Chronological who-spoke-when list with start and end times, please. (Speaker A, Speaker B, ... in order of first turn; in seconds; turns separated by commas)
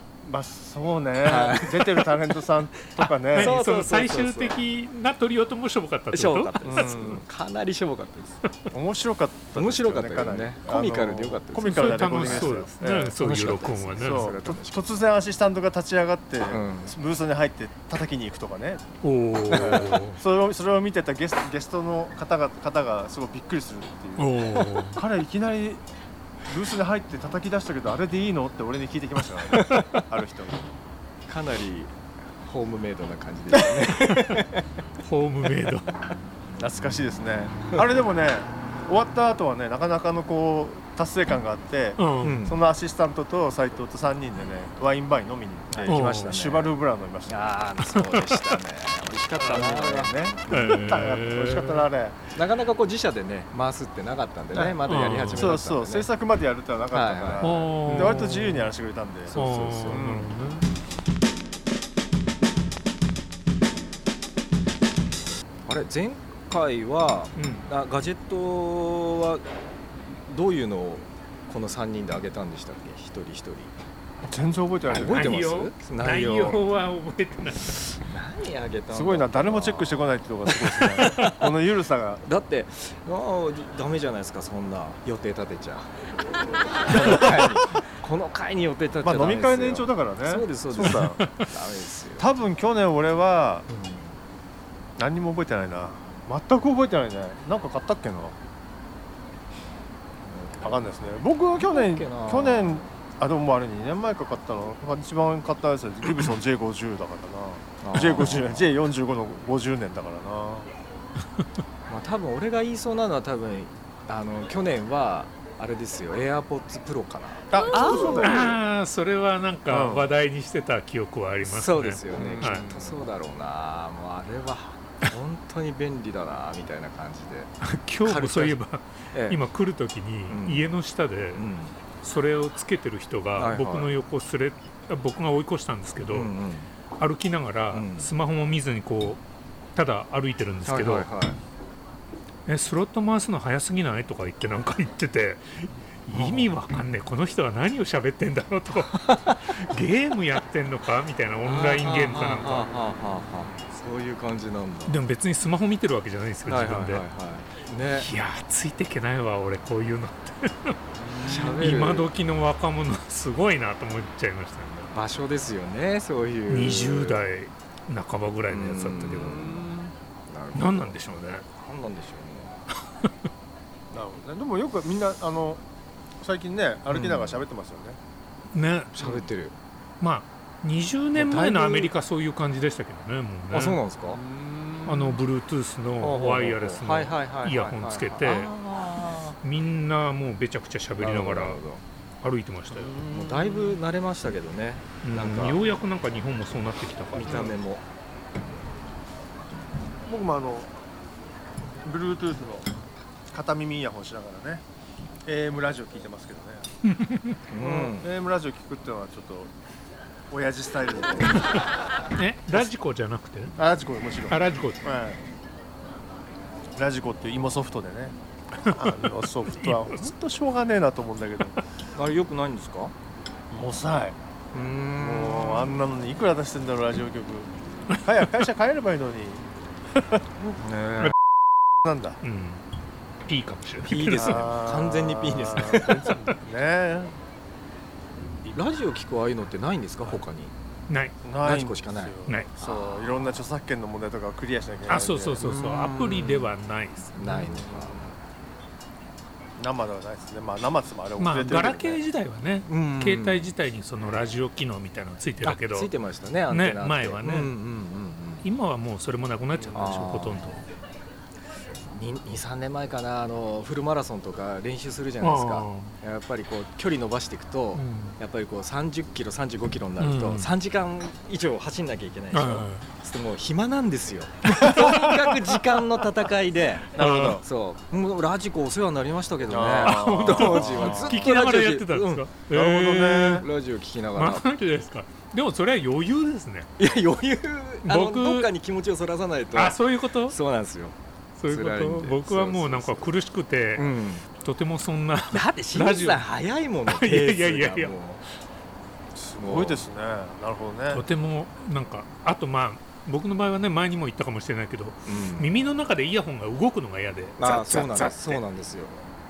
Speaker A: 0.2-3.6, Speaker B: 1.2-2.4, Speaker C: 3.3-6.7, Speaker B: 3.3-4.6, Speaker B: 6.1-8.4, Speaker A: 6.6-7.2, Speaker A: 8.7-13.2, Speaker B: 9.6-12.6, Speaker C: 11.6-14.3, Speaker B: 13.2-14.9, Speaker A: 13.9-18.9, Speaker B: 16.5-17.0, Speaker C: 19.0-20.2, Speaker A: 19.4-25.8, Speaker B: 19.5-20.0, Speaker C: 24.2-25.0, Speaker A: 26.5-30.7, Speaker B: 29.5-30.0, Speaker B: 31.3-34.7, Speaker A: 33.5-34.2, Speaker C: 35.0-35.9, Speaker A: 36.6-47.5, Speaker C: 42.0-42.4, Speaker B: 42.2-42.6, Speaker B: 45.7-46.7, Speaker C: 45.9-46.3, Speaker B: 47.3-51.1, Speaker C: 47.9-48.6, Speaker A: 49.4-52.2, Speaker C: 50.5-51.9, Speaker B: 52.3-56.1, Speaker A: 54.5-60.3, Speaker C: 54.9-55.5, Speaker B: 56.9-58.3, Speaker C: 57.4-58.7, Speaker B: 59.3-60.1, Speaker C: 59.4-60.6, Speaker B: 65.7-69.4, Speaker C: 67.4-67.7, Speaker B: 70.1-73.8, Speaker A: 74.3-75.5, Speaker B: 74.9-76.6, Speaker C: 74.9-78.0, Speaker B: 77.9-81.6, Speaker A: 78.9-82.2, Speaker B: 82.3-86.1, Speaker B: 86.8-92.3, Speaker A: 86.9-87.7, Speaker A: 89.0-91.2, Speaker C: 91.2-91.5, Speaker A: 92.2-93.7, Speaker B: 93.7-94.2, Speaker A: 95.0-98.4, Speaker B: 100.2-100.9, Speaker A: 100.6-110.7, Speaker B: 101.5-102.9, Speaker B: 107.8-108.7, Speaker B: 111.9-118.4, Speaker A: 117.5-118.6, Speaker C: 118.1-122.7, Speaker A: 119.7-120.1, Speaker B: 121.4-128.6, Speaker A: 122.1-123.0, Speaker C: 127.6-131.4, Speaker B: 129.1-129.4, Speaker B: 130.3-130.7, Speaker B: 131.3-131.8, Speaker C: 132.0-136.3, Speaker B: 133.4-134.0, Speaker B: 136.1-136.7, Speaker C: 137.0-139.2, Speaker B: 137.7-138.1, Speaker C: 139.8-141.1, Speaker B: 140.6-141.4, Speaker C: 142.5-152.7, Speaker B: 146.1-146.6, Speaker B: 148.9-149.5, Speaker B: 151.4-155.0, Speaker C: 154.9-157.0, Speaker B: 156.5-158.1, Speaker C: 158.0-164.9, Speaker A: 161.1-161.5, Speaker B: 161.2-162.1, Speaker B: 164.9-167.3, Speaker C: 166.5-169.6, Speaker B: 168.5-169.7, Speaker A: 169.1-169.9, Speaker B: 170.3-171.0, Speaker C: 170.6-171.4, Speaker B: 171.5-172.7, Speaker A: 173.9-175.6, Speaker A: 176.2-178.0, Speaker B: 176.9-177.5, Speaker C: 178.5-179.2, Speaker B: 178.9-179.6, Speaker C: 180.0-183.8, Speaker B: 181.2-181.9, Speaker B: 183.5-184.2, Speaker A: 184.1-185.2, Speaker C: 184.9-188.5, Speaker B: 186.0-189.4, Speaker C: 189.4-191.6, Speaker B: 191.0-191.8, Speaker C: 192.2-193.0, Speaker A: 192.7-193.8, Speaker B: 193.1-195.7, Speaker C: 195.0-197.5, Speaker B: 197.1-197.8, Speaker A: 200.1-200.7, Speaker A: 201.8-202.7, Speaker A: 203.3-204.6, Speaker A: 205.3-206.7, Speaker C: 206.9-207.4, Speaker B: 207.5-208.1, Speaker A: 207.5-209.5, Speaker A: 210.3-211.6, Speaker C: 212.2-213.6, Speaker A: 213.6-215.2, Speaker C: 214.3-214.8, Speaker A: 216.8-221.6, Speaker C: 218.6-220.1, Speaker B: 221.9-222.9, Speaker A: 223.5-224.2, Speaker B: 224.5-225.8, Speaker A: 224.9-229.4, Speaker B: 230.6-231.1, Speaker A: 231.8-232.2, Speaker C: 232.2-232.6, Speaker C: 233.3-234.5, Speaker B: 233.8-236.2, Speaker A: 234.1-237.2, Speaker B: 238.5-240.5, Speaker C: 240.9-241.2, Speaker A: 241.2-245.5, Speaker B: 241.4-243.3, Speaker C: 244.9-247.2, Speaker B: 245.4-246.5, Speaker B: 247.2-248.2, Speaker A: 247.2-248.1, Speaker A: 249.6-252.0, Speaker C: 251.2-255.9, Speaker B: 252.7-253.5, Speaker B: 255.4-258.4, Speaker C: 256.5-257.5, Speaker C: 258.4-260.6, Speaker B: 259.7-260.6, Speaker B: 261.9-284.5, Speaker C: 265.2-265.9, Speaker C: 267.8-268.2, Speaker C: 270.0-270.5, Speaker C: 272.3-272.9, Speaker A: 274.6-275.2, Speaker C: 274.6-275.1, Speaker A: 276.9-277.4, Speaker C: 277.0-277.4, Speaker A: 279.5-281.2, Speaker C: 279.8-283.4, Speaker A: 282.5-283.5, Speaker C: 284.1-286.7, Speaker B: 286.8-291.0, Speaker C: 287.8-288.5, Speaker C: 289.5-290.4, Speaker C: 291.4-296.2, Speaker B: 291.5-293.1, Speaker B: 293.8-294.2, Speaker B: 295.3-298.2, Speaker C: 296.9-298.0, Speaker A: 299.2-301.0, Speaker B: 299.4-299.9, Speaker C: 300.9-308.4, Speaker B: 305.1-305.5, Speaker B: 307.4-309.1